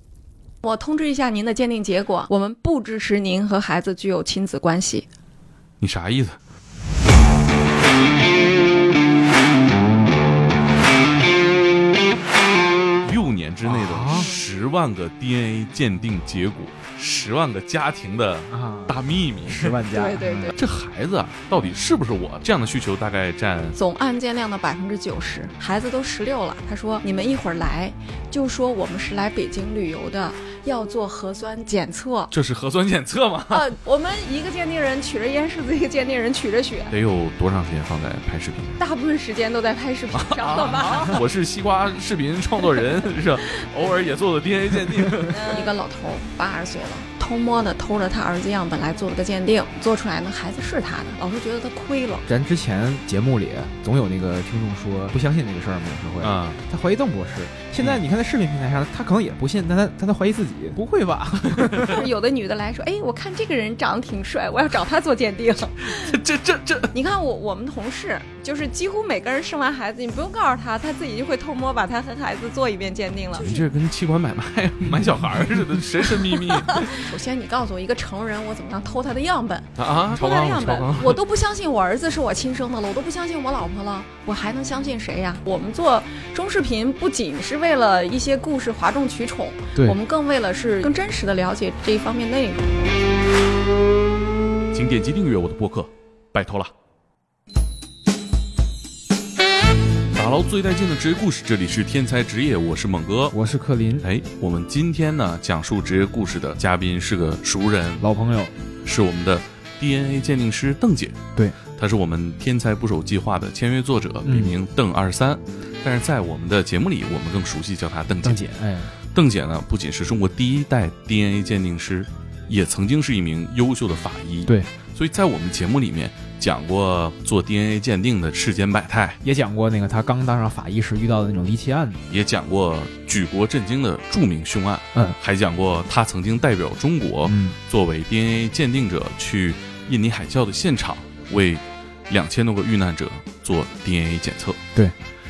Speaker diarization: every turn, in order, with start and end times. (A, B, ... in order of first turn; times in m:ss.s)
0:00.6-0:05.1 A
0:05.8-0:06.4 B
0:13.0-0:19.8 B
0:13.6-0:14.3 C
0:18.5-0:20.5 C
0:19.9-0:20.6 A
0:20.5-0:23.8 B
0:23.8-0:32.3 A
0:32.3-0:33.7 B
0:33.5-0:36.9 A
0:36.9-0:38.8 B
0:38.8-0:41.2 A
0:40.1-0:45.7 B
0:45.3-0:52.3 A
0:52.3-1:02.0 C
0:56.2-0:56.6 B
1:01.5-1:02.0 B
1:01.8-1:06.2 A
1:05.8-1:06.9 B
1:06.9-1:13.6 A
1:13.4-1:17.0 B
1:16.7-1:32.8 A
1:19.8-1:21.2 B
1:34.7-1:36.7 B
1:40.2-1:43.4 B
1:43.3-1:44.0 C
1:44.0-1:48.0 B
1:48.0-1:48.6 C
1:48.8-1:51.2 B
1:51.8-1:58.4 B
1:54.2-1:54.6 C
1:58.2-1:59.0 C
1:59.1-2:09.2 B
2:09.2-2:12.0 C
2:12.1-2:24.6 B
2:17.3-2:17.6 C